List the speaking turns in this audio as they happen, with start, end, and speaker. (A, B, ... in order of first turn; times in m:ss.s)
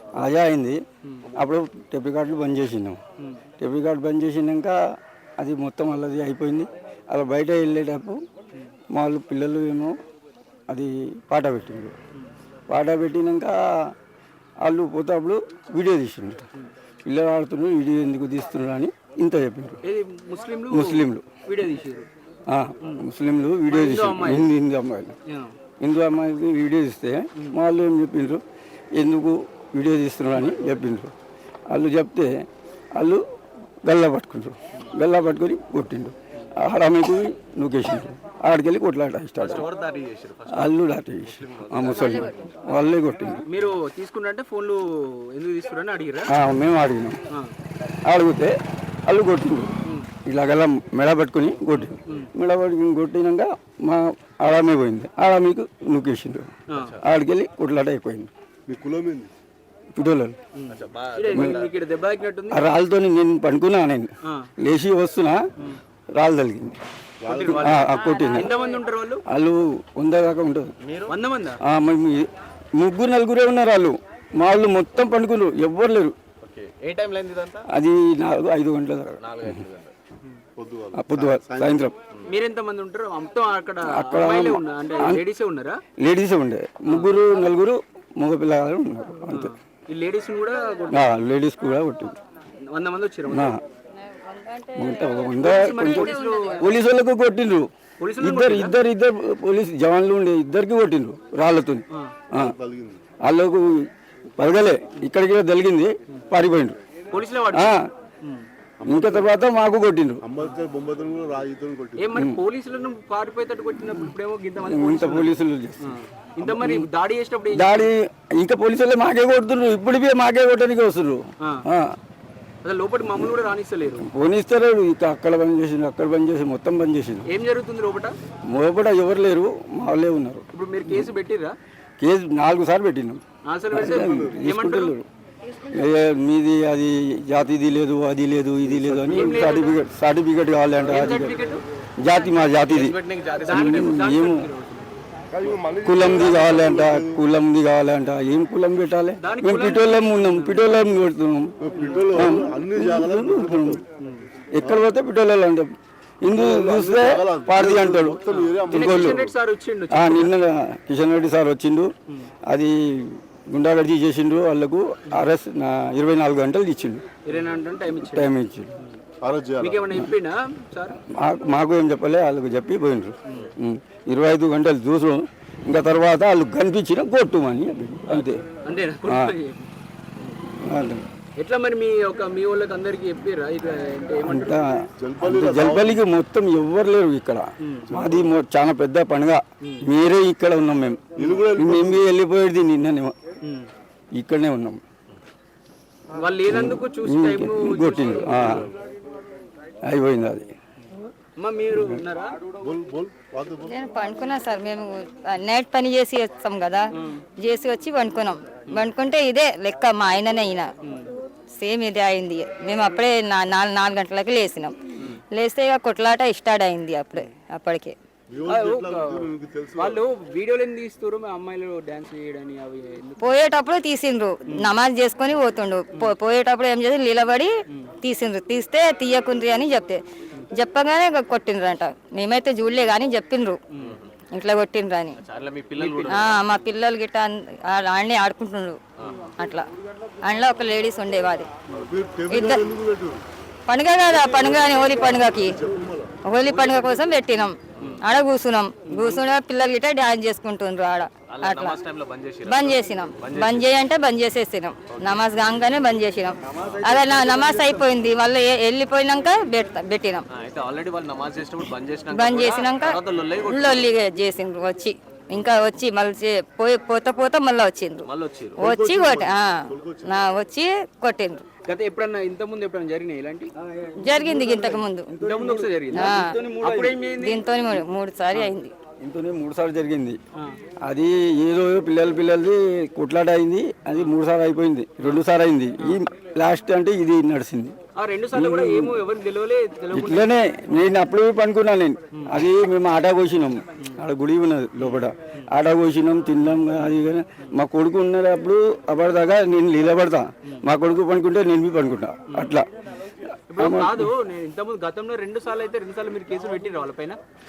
0:00.2-0:00.8 A
0:01.4-0:03.0 A
0:03.6-0:04.8 A
0:05.4-0:08.2 A
0:08.9-0:10.0 A
0:10.7-0:12.0 A
0:12.7-0:14.0 A
0:14.6-0:16.4 A
0:17.0-0:19.8 A
0:19.8-0:22.1 B
0:20.7-0:21.3 A
0:22.5-0:25.2 A
0:22.8-0:23.1 B
0:23.7-0:24.5 B
0:25.3-0:25.6 B
0:25.8-0:28.4 A
0:29.0-0:31.1 A
0:31.7-0:33.2 A
0:33.8-0:39.7 A
0:39.4-0:42.5 C
0:40.5-0:43.4 A
0:43.5-0:46.4 B
0:46.3-0:47.2 A
0:48.0-0:49.7 A
0:50.2-0:58.3 A
0:51.7-0:52.3 B
0:56.7-0:57.0 B
0:56.7-0:57.0 C
0:58.7-0:59.3 D
0:59.9-1:00.4 A
1:00.6-1:02.8 B
1:00.7-1:01.7 C
1:01.3-1:01.7 A
1:02.5-1:05.5 A
1:04.2-1:04.5 B
1:06.1-1:06.8 A
1:07.2-1:07.9 D
1:07.3-1:09.2 B
1:07.5-1:08.6 A
1:09.3-1:10.8 A
1:10.8-1:11.1 C
1:11.1-1:11.6 B
1:11.6-1:16.2 A
1:16.4-1:17.7 C
1:17.7-1:19.6 A
1:19.2-1:19.9 C
1:20.6-1:21.8 D
1:20.9-1:22.0 A
1:22.3-1:25.8 B
1:23.8-1:25.2 A
1:26.0-1:29.5 A
1:26.9-1:27.2 B
1:29.3-1:31.1 B
1:30.9-1:32.2 A
1:32.7-1:33.6 B
1:33.3-1:33.6 A
1:34.0-1:36.7 E
1:34.8-1:42.6 A
1:35.4-1:36.7 B
1:38.0-1:38.8 B
1:42.4-1:43.0 D
1:43.2-1:46.8 A
1:47.1-1:48.5 B
1:47.5-1:47.9 A
1:48.8-1:49.3 D
1:48.9-1:50.3 A
1:50.2-1:52.2 D
1:52.0-1:57.9 B
1:52.1-1:52.4 A
1:54.6-1:56.9 A
1:57.5-2:02.0 A
2:01.4-2:01.7 B
2:02.6-2:04.1 B
2:04.0-2:07.3 A
2:07.2-2:08.1 B
2:08.5-2:11.1 A
2:10.5-2:11.6 B
2:12.0-2:15.1 A
2:13.5-2:15.0 B
2:15.7-2:21.4 A
2:18.7-2:19.5 D
2:19.1-2:19.8 B
2:20.8-2:21.6 B
2:22.0-2:24.5 A
2:22.6-2:24.0 C
2:23.4-2:24.9 B
2:25.3-2:27.2 D
2:25.8-2:33.8 A
2:29.2-2:30.6 B
2:31.6-2:33.8 D
2:31.8-2:32.2 B
2:34.0-2:34.2 B
2:34.6-2:39.2 A
2:34.6-2:34.9 D
2:36.3-2:39.3 D
2:38.3-2:40.3 B
2:39.9-2:41.9 A
2:42.5-2:47.0 A
2:47.2-2:49.0 B
2:48.0-2:48.7 A
2:49.2-2:49.9 D
2:49.6-2:51.0 B
2:51.2-2:58.4 A
2:58.1-3:00.4 B
2:59.0-2:59.3 A
3:00.6-3:01.0 A
3:01.4-3:04.9 B
3:04.2-3:13.2 A
3:05.0-3:06.0 D
3:07.6-3:08.0 B
3:07.9-3:08.3 D
3:09.6-3:09.9 B
3:11.2-3:12.0 D
3:13.4-3:13.7 B
3:14.2-3:14.8 A
3:16.2-3:18.7 B
3:16.5-3:18.7 A
3:18.3-3:18.7 D
3:19.9-3:20.5 A
3:21.4-3:22.4 B
3:22.6-3:23.7 D
3:23.7-3:30.7 E
3:27.0-3:27.2 B
3:30.8-3:31.1 B
3:31.6-3:34.8 E
3:35.3-3:38.0 E
3:38.3-3:40.1 D
3:38.4-3:43.4 B
3:43.2-3:47.5 E
3:48.0-3:50.0 E
3:50.6-3:53.6 E
3:53.8-3:54.1 C
3:54.3-3:55.2 E
3:55.2-3:56.4 C
3:55.8-3:56.4 B
3:56.1-3:58.8 E
3:59.4-3:59.7 E
4:00.3-4:01.5 E
4:01.7-4:03.2 D
4:02.3-4:02.6 E
4:03.7-4:05.6 E
4:04.1-4:06.2 D
4:06.2-4:11.8 E
4:07.8-4:08.0 C
4:11.3-4:13.7 C
4:12.4-4:20.3 E
4:14.9-4:15.2 C
4:16.5-4:17.7 C
4:20.3-4:23.9 C
4:22.1-4:31.5 E
4:28.0-4:28.6 C
4:28.6-4:30.2 D
4:31.6-4:33.5 B
4:33.6-4:37.0 A
4:34.0-4:35.1 E
4:35.2-4:37.4 B
4:35.9-4:36.4 E
4:37.1-4:38.7 E
4:39.0-4:40.2 A
4:40.8-4:47.8 A
4:45.0-4:45.2 B
4:48.0-4:50.3 B
4:48.3-4:49.0 A
4:49.9-5:02.7 A
4:52.1-4:52.5 B
4:54.8-4:55.5 B
5:02.3-5:02.6 B
5:03.5-5:07.2 B
5:03.5-5:04.1 A